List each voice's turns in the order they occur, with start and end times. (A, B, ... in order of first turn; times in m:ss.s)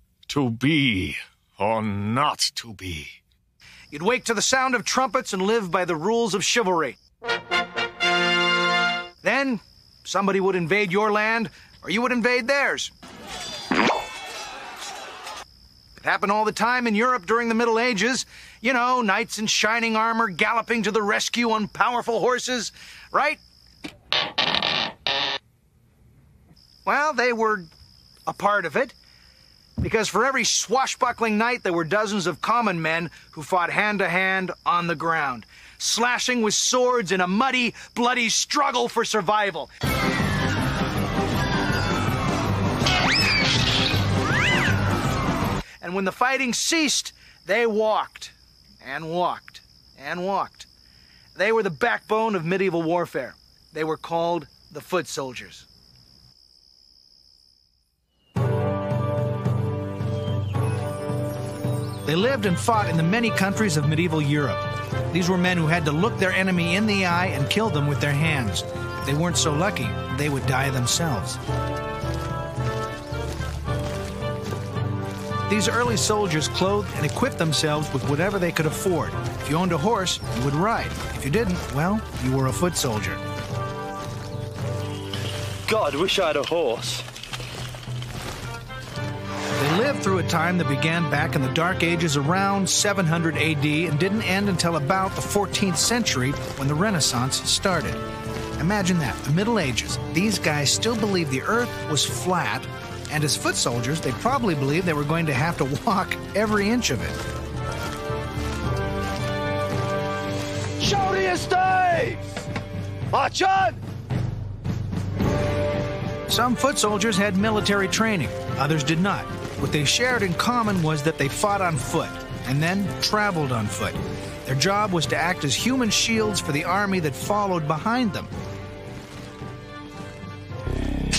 0:00.3-0:03.2 A
0:03.9-0:07.0 B
0:09.2-0:12.9 B
0:16.0-0:23.4 B
0:26.8-0:27.7 B
0:28.3-0:29.0 B
0:29.8-0:39.7 B
0:45.8-0:50.7 B
0:51.4-0:55.7 B
1:02.0-1:11.4 B
1:15.5-1:23.2 B
1:25.7-1:27.0 C
1:29.6-1:38.0 B
1:38.6-1:47.2 B
1:50.8-1:52.3 C
1:53.1-1:53.8 C
1:56.3-2:08.3 B